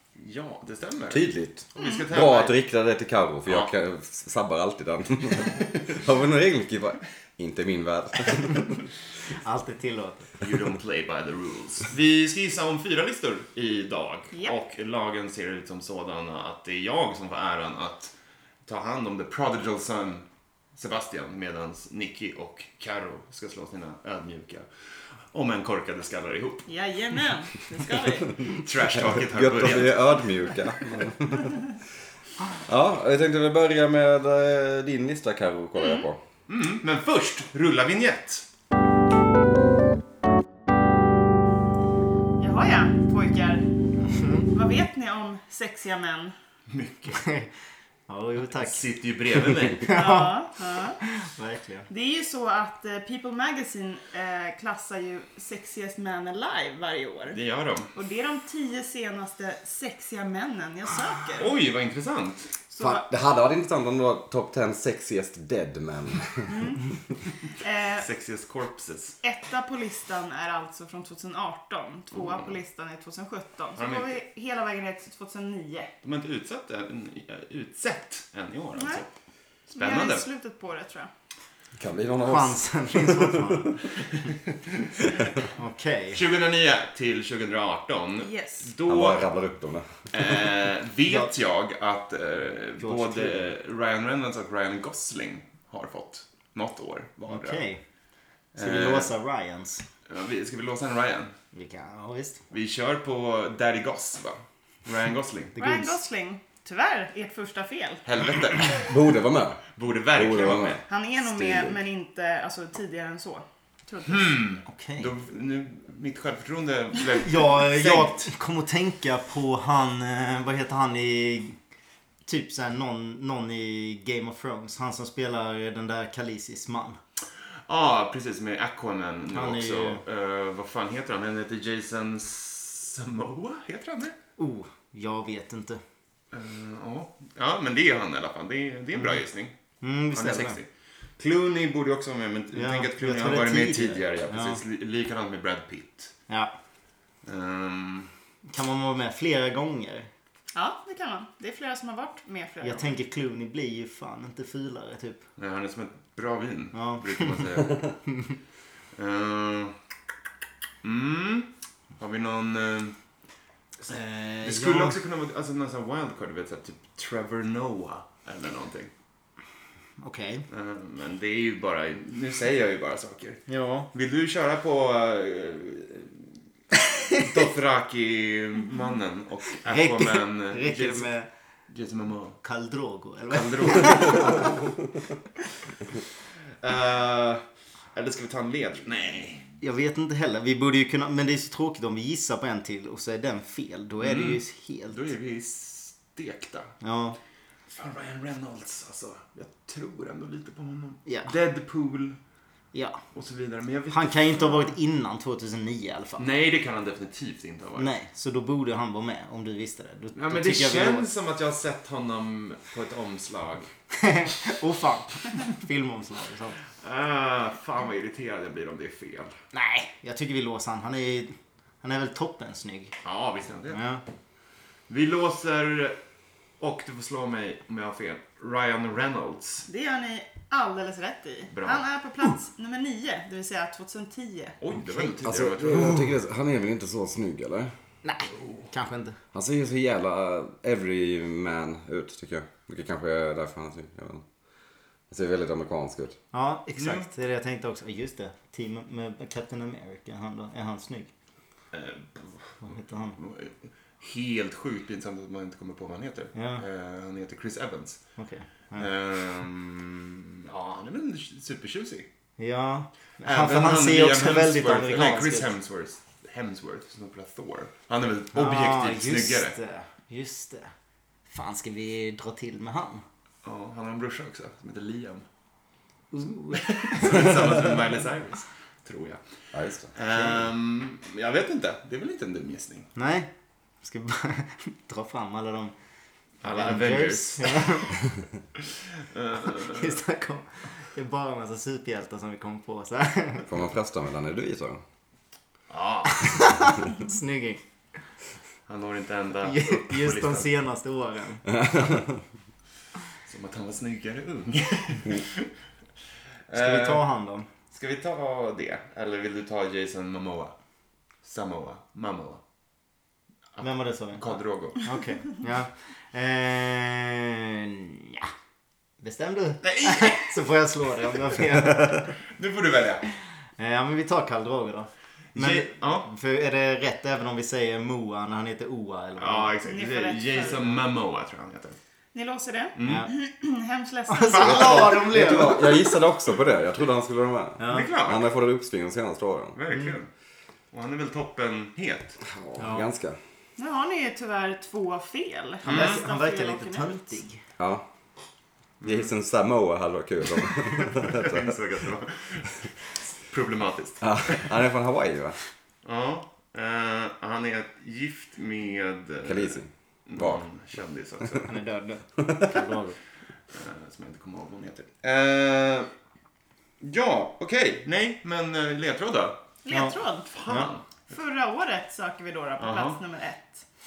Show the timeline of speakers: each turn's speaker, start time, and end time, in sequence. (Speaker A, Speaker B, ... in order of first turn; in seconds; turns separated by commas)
Speaker A: 0.2-2.6, Speaker B: 1.1-8.8, Speaker C: 1.8-2.0, Speaker A: 3.5-3.7, Speaker D: 9.3-10.4, Speaker A: 10.4-18.1, Speaker A: 18.7-24.7, Speaker A: 25.3-26.7, Speaker C: 26.7-28.4, Speaker A: 28.4-30.2, Speaker B: 29.1-31.7, Speaker B: 32.5-36.2, Speaker C: 35.8-36.1, Speaker A: 36.5-38.5, Speaker C: 42.4-43.7, Speaker D: 44.0-44.5, Speaker C: 44.5-46.3, Speaker A: 46.7-47.2, Speaker D: 47.1-47.5, Speaker D: 48.1-48.8, Speaker A: 48.5-50.0, Speaker D: 49.7-50.4, Speaker C: 49.9-51.0, Speaker D: 51.0-51.9, Speaker C: 51.9-57.4, Speaker A: 57.3-57.9, Speaker C: 57.9-61.5, Speaker A: 61.4-62.5, Speaker C: 62.7-63.0, Speaker B: 62.8-66.5, Speaker C: 66.5-66.8, Speaker C: 67.5-68.0, Speaker A: 68.0-69.2, Speaker C: 69.2-75.9, Speaker A: 73.8-74.2, Speaker A: 76.0-79.1, Speaker C: 78.8-79.0, Speaker A: 79.7-80.2, Speaker C: 79.8-81.1, Speaker B: 81.8-83.8, Speaker D: 82.2-83.8, Speaker D: 85.5-86.2, Speaker A: 86.1-89.3, Speaker C: 88.2-88.7, Speaker B: 88.8-89.9, Speaker A: 90.1-97.6, Speaker D: 92.8-93.5, Speaker D: 97.3-97.8, Speaker A: 98.5-99.1, Speaker D: 98.6-99.8, Speaker A: 100.1-101.3, Speaker D: 101.5-102.4, Speaker A: 102.5-105.6, Speaker D: 105.5-106.0, Speaker C: 105.6-108.0, Speaker A: 108.1-108.9, Speaker B: 108.7-111.8, Speaker A: 109.8-110.8, Speaker C: 110.9-114.4, Speaker A: 114.1-118.3, Speaker D: 114.6-115.1, Speaker D: 117.1-121.6, Speaker D: 122.2-127.0, Speaker A: 127.7-134.1, Speaker D: 129.3-130.0, Speaker D: 134.4-135.8, Speaker A: 136.3-139.5, Speaker D: 139.0-139.2, Speaker D: 139.8-140.6, Speaker A: 140.1-140.7, Speaker A: 141.2-146.1, Speaker D: 142.5-144.6, Speaker A: 147.2-148.1, Speaker D: 148.5-150.1, Speaker C: 150.5-152.9, Speaker D: 152.6-155.2, Speaker A: 155.4-157.9, Speaker D: 156.7-158.3, Speaker A: 158.9-159.7, Speaker A: 160.8-162.9, Speaker D: 163.8-165.0, Speaker A: 164.4-168.9, Speaker D: 170.0-170.4, Speaker A: 170.5-176.3, Speaker D: 173.5-173.9, Speaker A: 177.1-181.1, Speaker D: 179.7-181.3, Speaker A: 181.7-182.4, Speaker D: 182.4-184.6, Speaker A: 183.3-184.6, Speaker A: 186.6-189.5, Speaker D: 189.6-195.1, Speaker A: 194.0-196.7, Speaker D: 196.8-197.2, Speaker A: 197.7-202.2, Speaker D: 201.1-201.3, Speaker D: 202.7-203.0, Speaker A: 203.1-204.7, Speaker D: 203.9-206.3, Speaker A: 206.2-207.9, Speaker D: 207.8-211.1, Speaker A: 210.1-213.7, Speaker D: 213.9-216.6, Speaker A: 216.8-219.3, Speaker D: 219.5-222.9, Speaker A: 223.0-223.8, Speaker D: 223.7-224.0, Speaker A: 224.9-226.0, Speaker A: 226.6-229.7, Speaker C: 229.7-234.6, Speaker A: 231.5-231.9, Speaker A: 234.6-236.1, Speaker B: 235.2-237.8, Speaker D: 238.0-239.2, Speaker A: 238.3-238.7, Speaker B: 239.3-244.2, Speaker B: 245.1-246.2, Speaker D: 246.3-251.1, Speaker A: 246.8-247.1, Speaker A: 251.7-258.0, Speaker D: 252.6-253.2, Speaker D: 256.3-256.6, Speaker D: 258.2-258.9, Speaker A: 258.8-262.1, Speaker D: 262.4-265.5, Speaker A: 263.2-269.6, Speaker D: 268.3-270.7, Speaker D: 271.3-273.0, Speaker A: 273.4-275.2, Speaker D: 276.1-277.5, Speaker A: 276.5-279.2, Speaker B: 279.5-279.9, Speaker A: 279.9-282.9, Speaker D: 282.9-283.3, Speaker D: 283.8-285.7, Speaker A: 286.4-287.9, Speaker D: 286.4-287.9, Speaker A: 289.0-290.0, Speaker D: 289.6-293.5, Speaker B: 293.5-294.8, Speaker A: 295.7-296.7, Speaker D: 296.2-297.6, Speaker A: 298.7-300.5, Speaker D: 299.4-301.4, Speaker B: 301.5-302.2, Speaker A: 303.3-305.5, Speaker A: 306.5-307.0, Speaker D: 306.5-307.5, Speaker A: 307.7-310.6, Speaker A: 311.2-312.4, Speaker A: 313.6-314.9, Speaker D: 313.6-318.3, Speaker D: 319.0-322.1, Speaker A: 319.6-320.4, Speaker A: 321.4-323.1, Speaker D: 323.6-329.6, Speaker A: 325.3-326.1, Speaker A: 329.2-331.8, Speaker C: 329.7-330.8, Speaker C: 332.1-334.8, Speaker A: 332.8-333.1, Speaker D: 332.8-333.1, Speaker D: 334.1-335.9, Speaker A: 334.3-335.2, Speaker B: 334.7-339.6, Speaker D: 337.6-337.9, Speaker A: 337.7-338.3, Speaker A: 339.5-340.1, Speaker A: 340.7-342.2, Speaker B: 342.3-343.2, Speaker D: 342.6-342.9, Speaker C: 343.6-347.1, Speaker D: 345.6-347.4, Speaker A: 345.6-346.0, Speaker B: 347.6-347.8, Speaker A: 348.8-349.1, Speaker B: 348.8-351.5, Speaker A: 350.9-354.5, Speaker B: 354.0-355.4, Speaker A: 355.8-361.5, Speaker B: 359.2-360.4, Speaker D: 361.4-363.0, Speaker B: 362.2-362.5, Speaker A: 363.5-365.9, Speaker A: 366.8-369.4, Speaker C: 369.6-370.3, Speaker D: 369.7-370.7, Speaker A: 370.3-370.9, Speaker C: 371.1-373.6, Speaker A: 372.6-373.0